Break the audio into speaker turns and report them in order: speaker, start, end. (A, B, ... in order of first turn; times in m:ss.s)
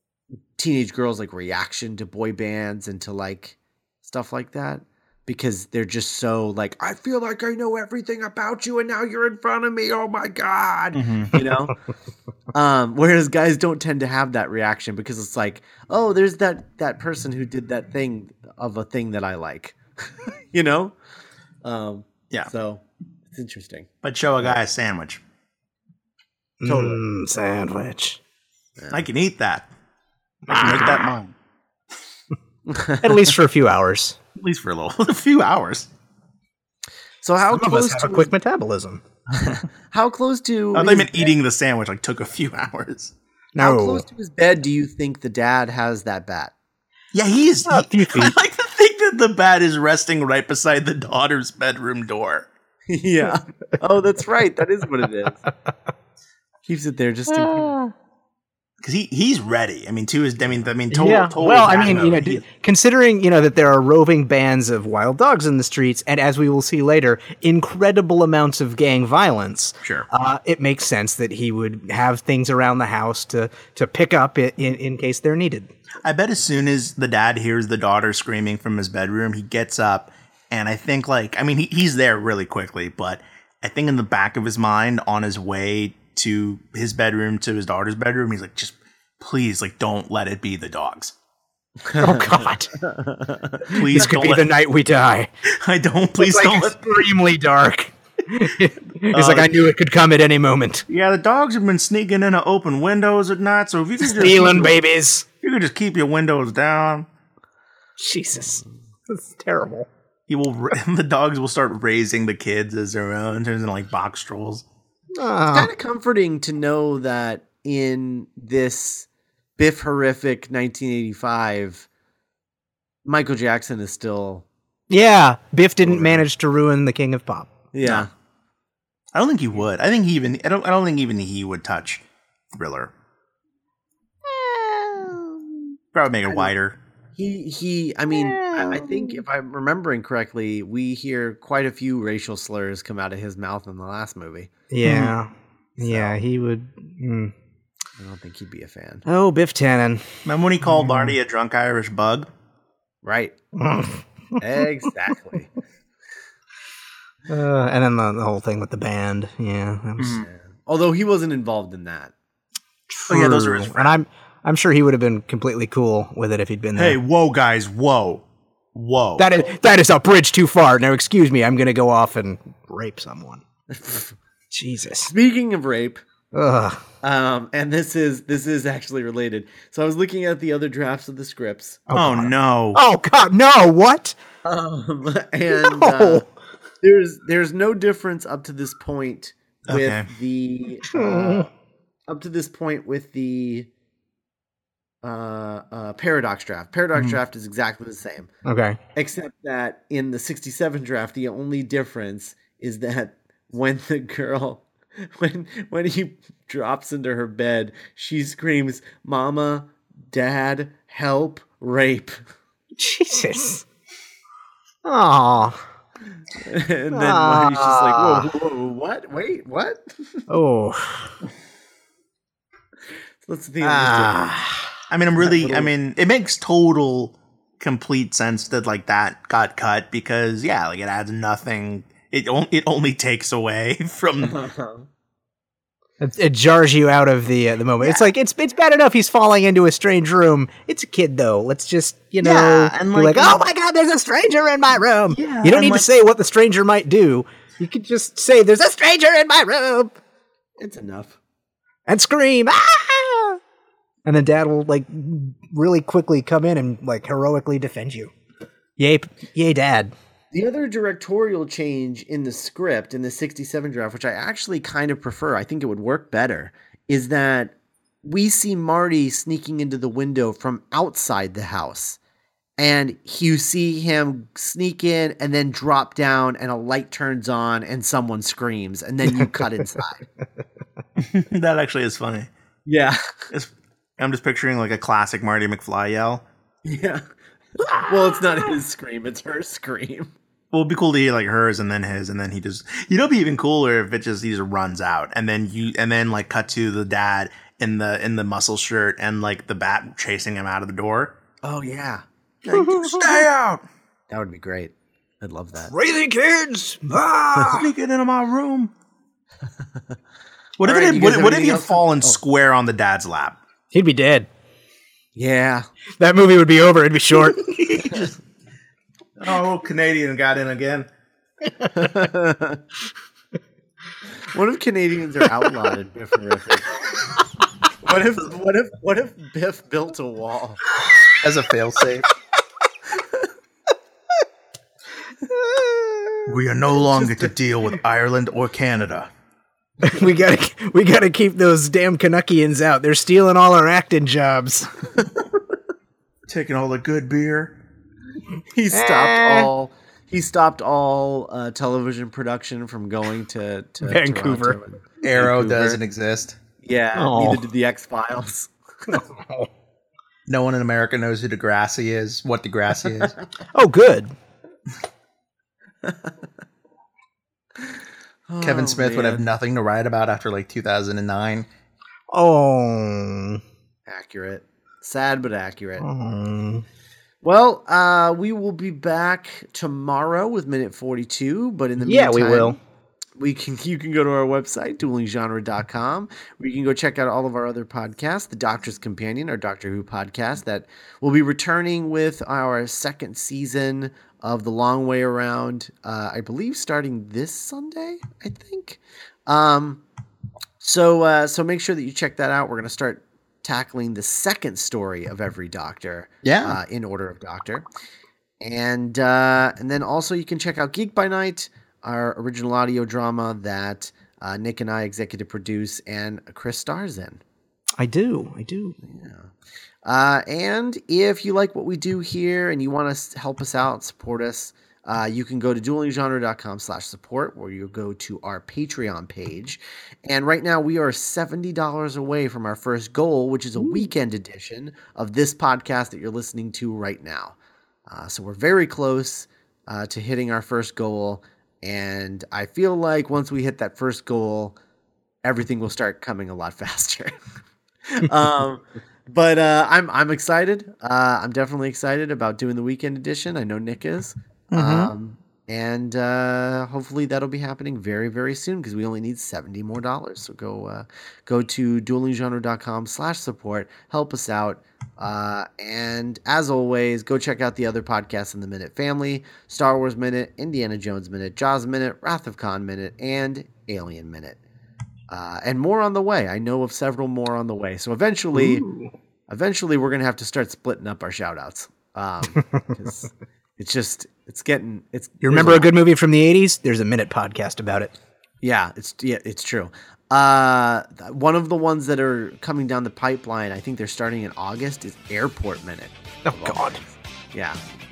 0:00.6-0:11.8 A
0:10.9-0:11.3 B
0:12.5-0:20.9 A
0:21.6-0:23.9 A
0:24.0-0:25.2 B
0:26.6-0:28.2 C
0:26.6-0:27.0 A
0:28.8-0:29.0 A
0:28.9-0:29.7 B
0:30.5-0:31.1 C
0:30.5-0:31.3 B
0:32.7-0:33.3 A
0:33.0-0:34.2 C
0:34.4-0:35.9 B
0:37.2-0:38.3 A
0:37.5-0:39.0 C
0:39.3-0:41.3 A
0:40.7-0:43.1 B
0:43.5-0:44.0 C
0:43.6-0:46.5 A
0:47.1-0:52.5 B
0:47.7-0:48.4 C
0:52.9-0:55.4 A
0:56.6-0:57.7 A
0:57.3-0:57.9 C
0:58.8-1:02.4 B
1:00.9-1:15.7 C
1:16.0-1:31.1 B
1:31.8-1:33.9 A
1:32.0-1:32.7 C
1:33.6-1:34.5 B
1:33.9-1:35.3 C
1:35.5-1:36.8 B
1:36.2-1:40.8 C
1:39.1-1:39.6 B
1:40.9-1:44.8 B
1:44.0-1:45.2 C
1:45.4-1:47.1 B
1:48.0-1:49.9 C
1:50.3-1:54.6 B
1:55.1-1:55.7 C
1:55.5-2:01.9 A
2:03.0-2:04.4 A
2:04.9-2:07.5 C
2:05.8-2:06.2 A
2:07.7-2:08.1 A
2:09.1-2:12.9 B
2:14.2-2:15.6 C
2:15.9-2:16.8 B
2:17.2-2:24.5 A
2:18.1-2:19.2 C
2:24.7-2:27.3 C
2:24.8-2:25.2 B
2:25.8-2:26.2 A
2:28.0-2:29.0 A
2:29.0-2:31.1 C
2:30.2-2:32.3 B
2:33.0-2:33.4 A
2:33.6-2:34.6 C
2:34.4-2:35.5 A
2:37.3-2:40.2 C
2:40.0-2:40.2 B
2:40.2-2:42.1 A
2:42.9-2:47.0 C
2:43.1-2:43.9 B
2:46.7-2:48.2 B
2:48.7-2:49.3 B
2:49.2-2:53.4 C
2:53.7-2:54.1 A
2:54.5-2:55.1 C
2:55.1-2:56.0 A
2:56.3-2:56.8 C
2:57.0-3:01.8 A
3:01.9-3:04.2 C
3:01.9-3:02.8 B
3:04.4-3:06.2 A
3:05.5-3:06.3 C
3:06.8-3:11.5 A
3:09.7-3:10.1 B
3:10.9-3:11.5 C
3:12.1-3:13.7 A
3:15.0-3:18.3 A
3:18.4-3:18.8 C
3:18.9-3:32.2 A
3:32.8-3:33.6 C
3:34.8-3:35.6 C
3:36.4-3:39.8 A
3:36.9-3:38.3 C
3:40.3-3:41.1 C
3:43.2-3:44.3 A
3:43.6-3:44.8 C
3:44.9-3:54.4 B
3:45.2-3:45.7 A
3:54.2-3:54.9 A
3:56.0-4:10.0 C
4:02.2-4:03.4 B
4:05.1-4:05.9 B
4:10.6-4:11.2 A
4:11.9-4:13.4 C
4:14.0-4:18.1 C
4:18.8-4:19.9 C
4:20.3-4:32.0 A
4:32.6-4:40.0 A
4:39.0-4:39.8 C
4:41.0-4:42.3 B
4:42.6-4:43.0 A
4:43.3-4:46.2 B
4:46.6-4:47.0 A
4:47.6-4:50.1 A
4:50.5-5:01.2 B
5:01.4-5:02.8 A
5:02.5-5:03.2 C
5:02.6-5:03.6 B
5:04.1-5:05.7 A
5:05.7-5:07.7 C
5:07.5-5:08.7 B
5:10.6-5:13.4 B
5:10.6-5:12.2 A
5:13.7-5:14.3 C
5:15.1-5:15.7 A
5:16.0-5:17.5 C
5:17.2-5:18.1 B
5:19.2-5:20.9 B
5:21.7-5:22.6 A
5:24.2-5:26.8 A
5:27.8-5:30.6 A
5:31.1-5:32.1 B
5:32.9-5:33.3 A
5:35.2-5:36.3 C
5:36.2-5:39.1 B
5:36.8-5:37.3 A
5:39.8-5:44.9 C
5:46.3-5:47.5 B
5:48.5-5:55.8 A
5:48.7-5:49.5 C
5:53.8-5:54.6 C
5:55.0-5:56.4 B
5:56.6-5:58.5 A
5:57.0-5:57.4 C
5:58.9-5:59.5 C
6:00.3-6:03.2 B
6:03.5-6:04.1 C
6:05.8-6:06.2 A
6:08.3-6:09.2 A
6:08.4-6:11.4 B
6:12.1-6:13.4 C
6:13.9-6:15.9 A
6:15.8-6:16.6 C
6:17.2-6:22.6 A
6:21.8-6:22.6 C
6:23.2-6:39.8 A
6:40.6-6:47.6 A
6:46.2-6:46.6 B
6:48.4-6:57.2 A
6:57.8-6:58.8 C
6:58.8-6:59.3 A
6:59.8-7:17.4 A
7:17.9-7:24.6 A
7:25.2-7:27.1 A
7:27.9-7:54.4 A
7:34.5-7:34.9 B
7:55.1-7:58.6 A
7:58.3-7:58.9 C
7:59.3-8:05.7 A
8:05.2-8:07.9 C
8:08.4-8:17.6 A
8:16.2-8:16.8 C